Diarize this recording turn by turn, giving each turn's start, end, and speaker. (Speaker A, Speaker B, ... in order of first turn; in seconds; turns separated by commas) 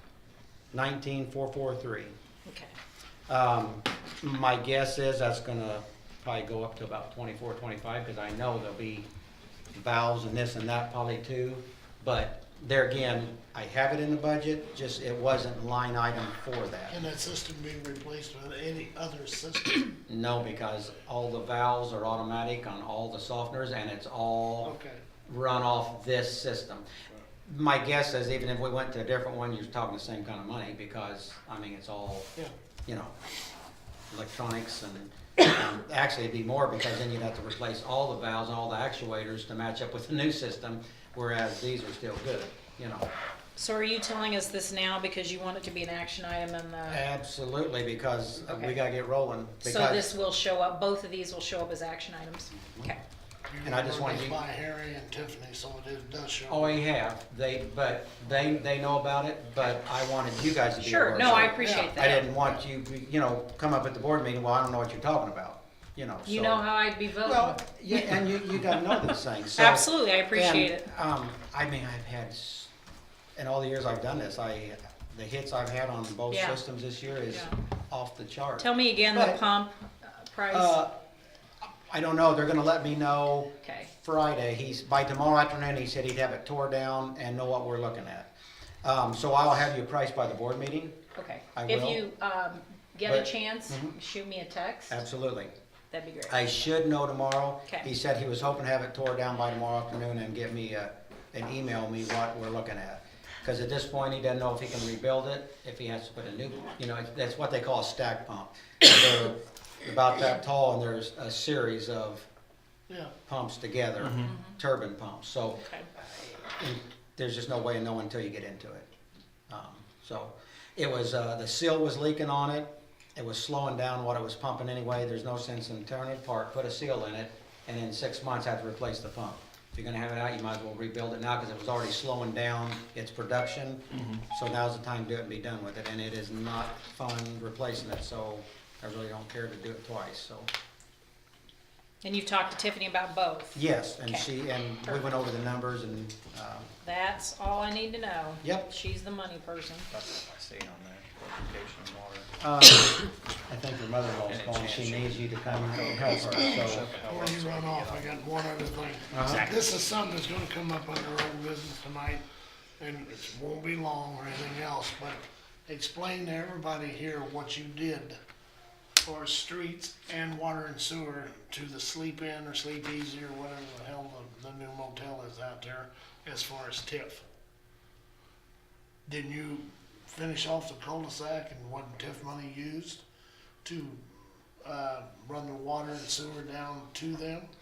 Speaker A: 0.7-2.1, Speaker B: 2.5-2.7, Speaker A: 3.3-9.1, Speaker A: 9.7-17.0, Speaker C: 16.9-20.0, Speaker A: 20.1-24.8, Speaker C: 24.6-25.0, Speaker A: 25.3-26.9, Speaker A: 27.4-32.3, Speaker A: 32.9-33.1, Speaker A: 34.1-43.1, Speaker B: 43.6-47.0, Speaker A: 46.9-50.1, Speaker B: 48.5-48.8, Speaker B: 49.6-53.0, Speaker A: 52.6-52.9, Speaker C: 53.5-56.8, Speaker A: 53.6-54.4, Speaker A: 56.5-72.7, Speaker B: 60.8-62.3, Speaker C: 61.4-62.5, Speaker B: 66.2-68.2, Speaker B: 69.5-70.8, Speaker A: 73.3-79.4, Speaker B: 76.3-76.6, Speaker B: 78.6-80.8, Speaker A: 80.5-80.9, Speaker A: 81.6-88.3, Speaker B: 83.6-83.9, Speaker A: 88.8-91.0, Speaker B: 91.2-95.0, Speaker A: 91.5-92.0, Speaker A: 93.0-93.9, Speaker A: 94.9-95.5, Speaker B: 95.9-96.7, Speaker A: 96.3-112.3, Speaker C: 112.9-113.1, Speaker A: 113.3-118.9, Speaker B: 114.2-114.5, Speaker B: 115.5-115.9, Speaker A: 119.5-140.5, Speaker B: 142.0-144.2, Speaker A: 143.5-146.7, Speaker B: 144.8-145.1, Speaker B: 146.8-149.9, Speaker D: 149.9-152.3, Speaker A: 152.4-156.9, Speaker D: 154.2-158.2, Speaker C: 156.9-162.2, Speaker A: 159.1-159.4, Speaker D: 159.1-159.8, Speaker C: 162.8-168.2, Speaker C: 169.0-177.3, Speaker C: 179.1-183.0, Speaker C: 183.6-184.0, Speaker C: 184.6-187.5